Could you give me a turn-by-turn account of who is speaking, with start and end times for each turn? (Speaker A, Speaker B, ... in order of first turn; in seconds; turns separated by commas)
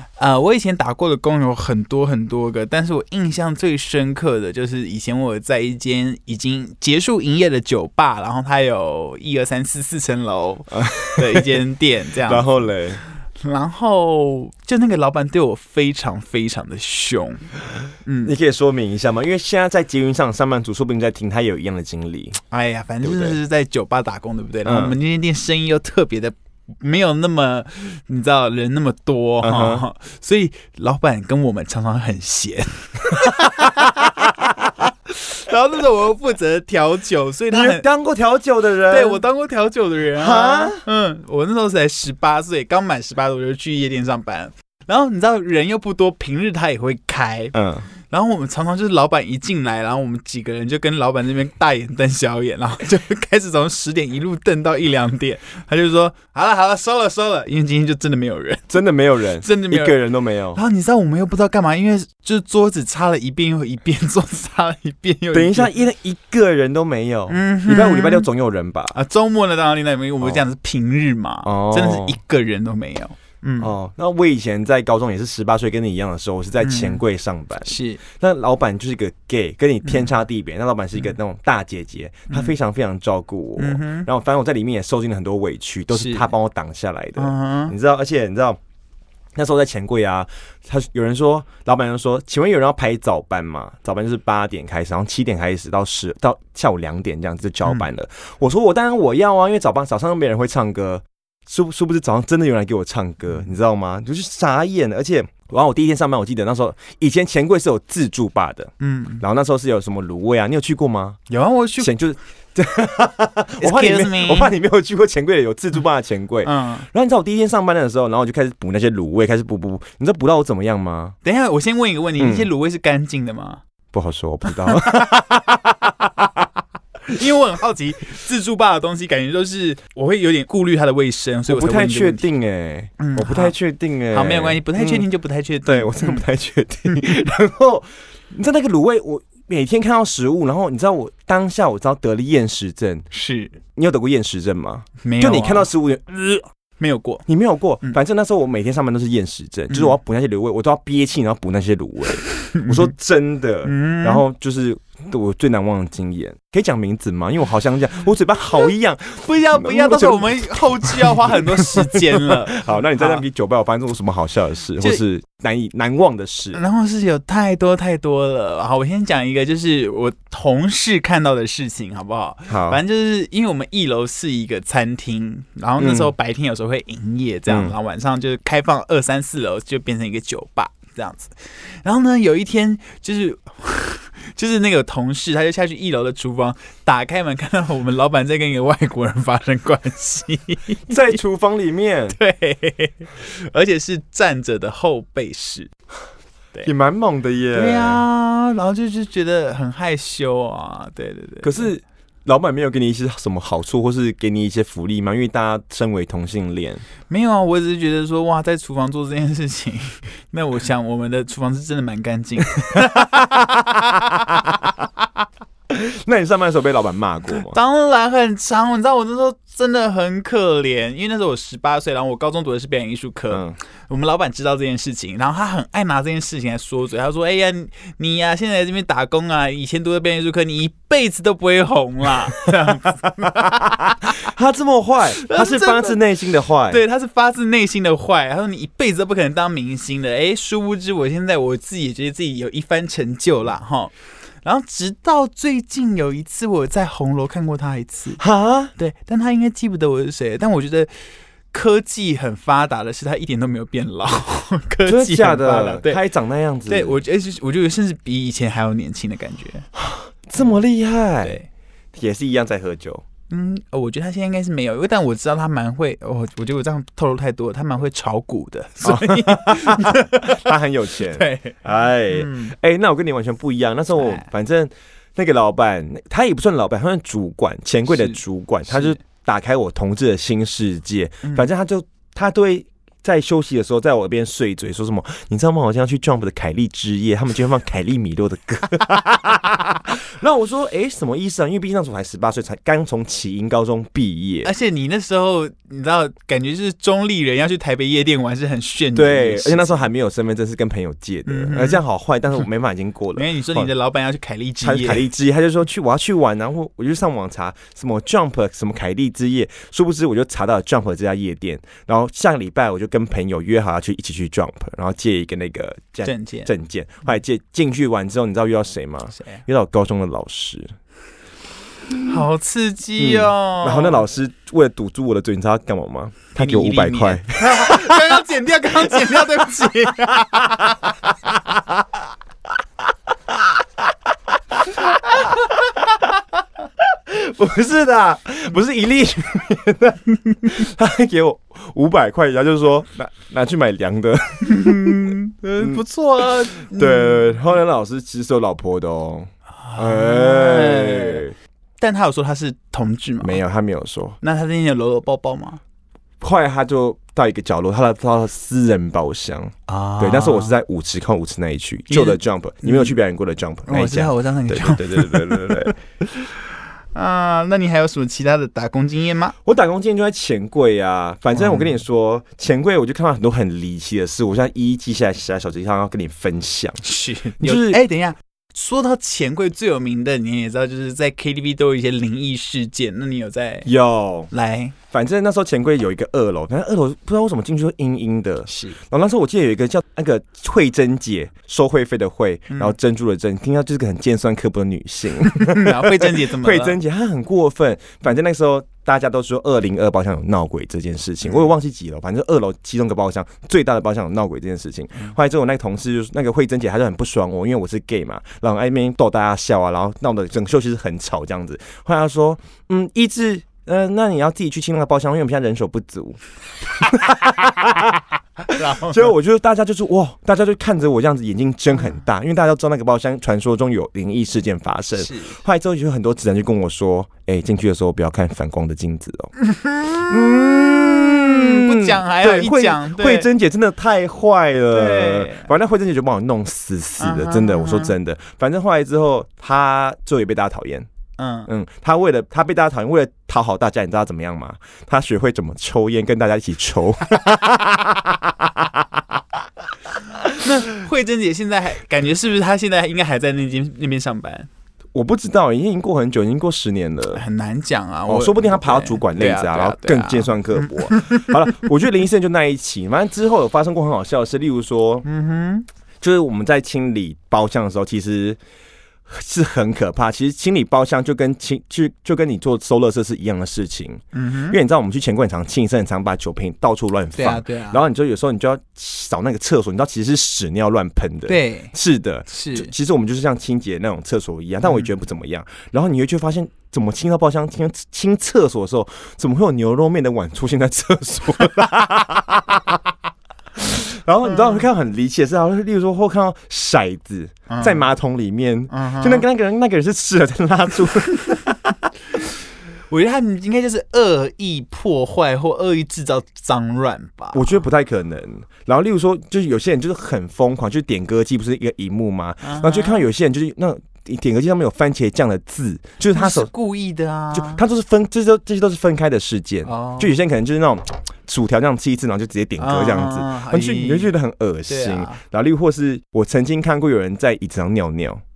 Speaker A: 0.2-12.5, Speaker B: 10.7-11.5, Speaker B: 12.2-13.0, Speaker A: 13.4-17.5, Speaker A: 18.1-18.3, Speaker B: 18.2-22.4, Speaker A: 22.5-37.8, Speaker B: 23.0-23.4, Speaker B: 24.6-24.9, Speaker B: 29.4-29.8, Speaker B: 37.5-39.2, Speaker A: 38.9-47.5, Speaker B: 40.1-40.8, Speaker B: 47.5-47.9, Speaker A: 48.1-58.7, Speaker B: 58.7-60.6, Speaker A: 59.4-60.0, Speaker A: 60.5-65.7, Speaker B: 65.3-69.0, Speaker A: 67.3-68.3, Speaker A: 68.9-73.7, Speaker B: 71.4-72.2, Speaker B: 73.6-88.6, Speaker A: 76.6-77.0, Speaker A: 77.7-78.0, Speaker A: 83.6-84.1, Speaker A: 85.9-86.3, Speaker A: 87.2-87.7, Speaker B: 89.3-111.2, Speaker A: 108.8-109.2, Speaker A: 111.3-111.9, Speaker B: 111.8-121.2, Speaker A: 113.6-114.5, Speaker A: 116.4-116.9, Speaker A: 121.2-123.6, Speaker B: 122.2-122.5, Speaker B: 123.9-126.5, Speaker A: 124.5-125.2, Speaker A: 127.1-132.2, Speaker B: 131.5-135.0, Speaker A: 133.0-133.5, Speaker A: 134.1-136.2, Speaker B: 135.7-143.1, Speaker A: 143.1-143.6, Speaker B: 143.8-146.5, Speaker A: 145.0-145.7, Speaker A: 146.8-147.2, Speaker B: 147.3-166.6, Speaker A: 149.7-149.9, Speaker A: 152.4-152.9, Speaker A: 153.7-154.2, Speaker A: 159.2-163.2, Speaker A: 166.5-191.2, Speaker B: 172.5-172.8, Speaker B: 175.8-176.1, Speaker B: 177.5-177.8, Speaker B: 190.9-192.2, Speaker A: 192.1-195.7, Speaker B: 196.6-198.0, Speaker A: 197.5-201.7, Speaker B: 201.4-206.8, Speaker A: 207.1-213.5, Speaker B: 212.7-214.7, Speaker B: 215.7-217.6, Speaker A: 217.4-234.2, Speaker B: 223.3-223.6, Speaker B: 234.0-236.8, Speaker A: 235.2-236.0, Speaker A: 236.7-248.2, Speaker B: 248.2-248.7, Speaker A: 248.8-250.9, Speaker A: 251.5-256.0, Speaker B: 254.9-257.0, Speaker A: 256.7-259.7, Speaker B: 259.8-261.4, Speaker B: 261.9-263.1, Speaker A: 263.3-270.4, Speaker B: 268.8-294.5, Speaker A: 271.1-271.6, Speaker A: 272.1-272.6, Speaker A: 274.0-274.3, Speaker A: 277.9-278.2, Speaker A: 278.7-279.0, Speaker A: 294.4-299.8, Speaker B: 298.9-303.7, Speaker A: 301.2-301.8, Speaker A: 303.1-305.1, Speaker B: 304.6-320.8, Speaker A: 316.1-316.5, Speaker A: 319.1-319.4, Speaker A: 322.0-324.0, Speaker B: 323.0-328.2, Speaker A: 326.4-330.9, Speaker B: 334.8-335.6, Speaker B: 337.1-345.8, Speaker A: 344.4-347.2, Speaker B: 346.5-351.4, Speaker A: 349.6-351.2, Speaker A: 351.8-353.4, Speaker B: 353.2-354.2, Speaker A: 354.2-355.6, Speaker B: 356.2-365.7, Speaker A: 359.7-360.6, Speaker A: 361.9-362.9, Speaker A: 363.6-369.4, Speaker B: 369.4-376.8, Speaker A: 371.4-371.8, Speaker A: 376.8-383.7, Speaker B: 377.4-377.8, Speaker B: 383.6-384.3, Speaker A: 384.3-384.8, Speaker B: 384.9-429.3, Speaker A: 388.5-388.8, Speaker A: 395.3-396.8, Speaker A: 418.5-419.1, Speaker A: 425.0-425.4, Speaker A: 429.4-433.3, Speaker B: 429.9-440.9, Speaker A: 434.7-435.5, Speaker A: 437.0-437.9, Speaker A: 441.2-441.5, Speaker B: 441.5-449.0, Speaker A: 450.4-454.5, Speaker B: 454.9-457.2, Speaker A: 457.1-461.3, Speaker B: 458.1-465.1, Speaker A: 465.1-465.6, Speaker B: 466.0-468.4, Speaker B: 469.1-492.8, Speaker A: 474.1-474.6, Speaker A: 477.1-477.8, Speaker A: 481.3-481.7, Speaker A: 482.3-482.7, Speaker B: 493.6-501.6, Speaker A: 494.2-494.6, Speaker A: 497.5-497.9, Speaker A: 498.7-499.2, Speaker A: 502.9-507.6, Speaker B: 507.3-516.5, Speaker A: 512.4-513.1, Speaker A: 516.1-517.6, Speaker B: 517.3-528.2, Speaker A: 519.6-520.1, Speaker A: 522.6-524.1, Speaker A: 524.7-525.2